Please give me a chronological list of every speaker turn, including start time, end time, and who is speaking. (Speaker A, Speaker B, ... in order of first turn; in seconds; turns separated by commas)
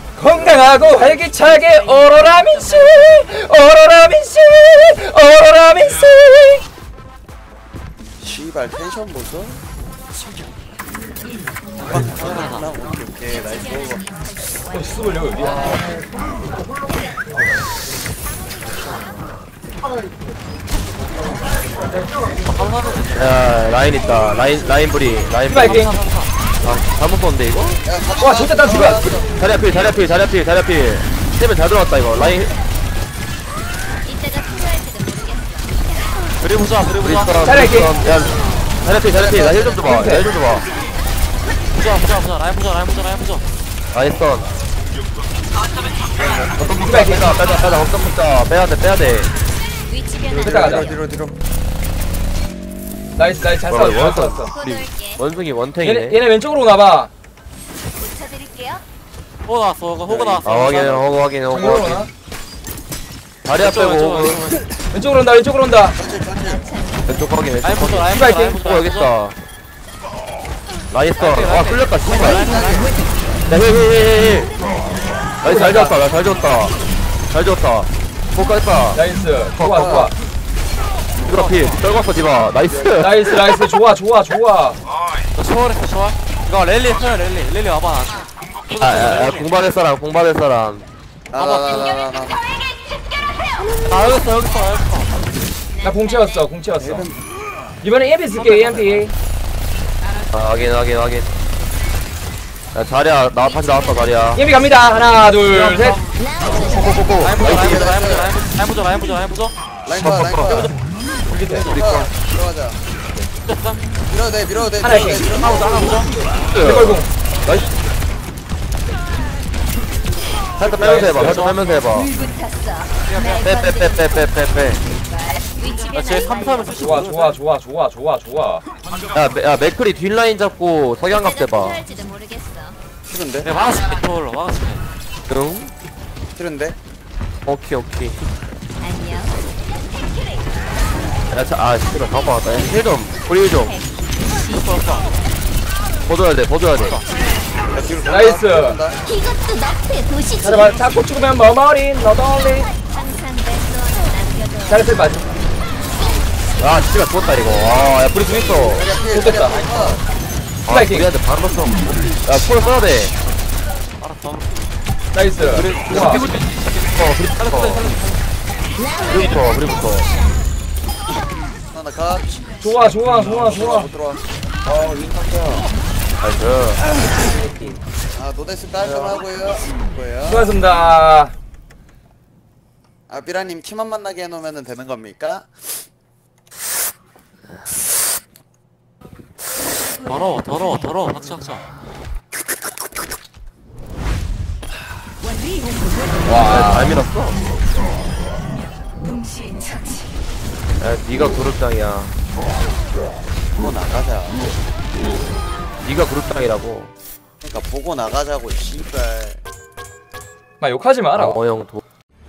Speaker A: 0.2-6.6, Speaker B: 0.3-1.2, Speaker B: 8.2-9.6, Speaker B: 11.8-14.0, Speaker C: 11.9-12.7, Speaker A: 14.7-15.8, Speaker C: 22.4-23.4, Speaker D: 23.1-25.9, Speaker A: 25.5-25.9, Speaker C: 25.8-26.3, Speaker D: 26.6-27.8, Speaker B: 27.8-29.4, Speaker A: 28.2-29.1, Speaker D: 28.7-32.5, Speaker E: 34.1-35.8, Speaker C: 36.4-37.4, Speaker D: 37.0-40.6, Speaker A: 37.4-37.9, Speaker B: 39.1-39.9, Speaker A: 39.8-40.3, Speaker C: 41.8-43.4, Speaker D: 43.9-44.5, Speaker B: 46.1-46.5, Speaker D: 46.6-49.3, Speaker A: 46.6-47.4, Speaker E: 49.9-50.9, Speaker B: 50.3-51.4, Speaker A: 50.4-50.9, Speaker A: 53.1-54.5, Speaker D: 53.7-56.2, Speaker E: 54.5-55.2, Speaker A: 55.8-57.1, Speaker E: 58.0-58.8, Speaker C: 59.5-61.1, Speaker B: 60.1-60.5, Speaker D: 60.4-62.1, Speaker A: 61.5-62.1, Speaker D: 63.4-64.4, Speaker C: 63.6-64.7, Speaker A: 64.9-66.0, Speaker B: 66.0-66.6, Speaker E: 66.6-67.0, Speaker D: 67.1-69.4, Speaker C: 67.6-69.1, Speaker A: 68.1-68.6, Speaker D: 70.9-72.5, Speaker C: 71.2-73.0, Speaker B: 72.1-73.0, Speaker D: 73.5-74.5, Speaker D: 75.4-76.8, Speaker A: 75.4-76.0, Speaker D: 77.3-79.0, Speaker A: 78.9-80.1, Speaker D: 79.6-80.0, Speaker B: 79.7-80.1, Speaker D: 81.2-83.6, Speaker C: 81.2-81.8, Speaker B: 82.7-83.0, Speaker A: 83.0-84.8, Speaker C: 85.3-89.5, Speaker D: 88.8-90.9, Speaker B: 91.3-92.4, Speaker C: 91.3-92.0, Speaker C: 93.7-95.1, Speaker E: 95.8-96.2, Speaker A: 95.8-97.1, Speaker B: 96.8-97.2, Speaker A: 97.8-99.1, Speaker C: 98.4-98.8, Speaker D: 100.3-101.3, Speaker D: 102.7-104.4, Speaker E: 103.8-104.4, Speaker A: 104.3-106.0, Speaker C: 105.5-109.5, Speaker D: 106.4-107.4, Speaker B: 107.4-108.4, Speaker B: 109.8-110.8, Speaker D: 109.9-110.7, Speaker A: 111.3-111.7, Speaker C: 111.4-111.9, Speaker D: 111.7-112.1, Speaker B: 111.7-112.8, Speaker C: 113.4-113.9, Speaker B: 114.1-116.1, Speaker A: 114.8-115.3, Speaker C: 115.2-116.2, Speaker D: 116.5-117.0, Speaker A: 116.5-117.5, Speaker D: 120.6-122.1, Speaker C: 120.8-121.6, Speaker A: 120.8-121.4, Speaker C: 123.0-123.5, Speaker D: 123.4-124.8, Speaker E: 125.4-126.7, Speaker C: 125.9-127.4, Speaker A: 126.8-128.6, Speaker D: 129.1-131.8, Speaker E: 131.1-132.8, Speaker B: 133.1-133.6, Speaker C: 133.4-134.8, Speaker D: 135.3-135.7, Speaker B: 136.3-136.8, Speaker D: 137.4-138.3, Speaker E: 138.8-139.4, Speaker D: 141.3-143.8, Speaker C: 144.5-145.1, Speaker D: 146.1-147.0, Speaker C: 146.8-147.1, Speaker B: 147.7-149.1, Speaker A: 148.1-148.8, Speaker E: 149.3-150.2, Speaker A: 150.4-152.7, Speaker E: 152.8-154.8, Speaker A: 154.7-155.4, Speaker D: 156.6-158.9, Speaker B: 158.6-160.0, Speaker A: 159.0-159.6, Speaker D: 160.7-163.1, Speaker A: 160.7-161.1, Speaker C: 164.0-164.6, Speaker A: 165.1-166.2, Speaker C: 165.5-166.8, Speaker D: 165.8-167.9, Speaker C: 167.4-168.2, Speaker D: 169.0-170.1, Speaker B: 171.7-172.5, Speaker A: 172.6-173.9, Speaker B: 173.3-175.6, Speaker D: 176.2-176.8, Speaker B: 178.1-180.5, Speaker A: 180.2-181.3, Speaker B: 183.1-185.6, Speaker C: 189.9-191.6, Speaker A: 196.2-197.0, Speaker D: 196.4-197.4, Speaker D: 200.8-202.1, Speaker B: 203.6-204.5, Speaker D: 205.8-206.9, Speaker B: 207.4-209.4, Speaker A: 210.6-211.4, Speaker D: 211.1-211.8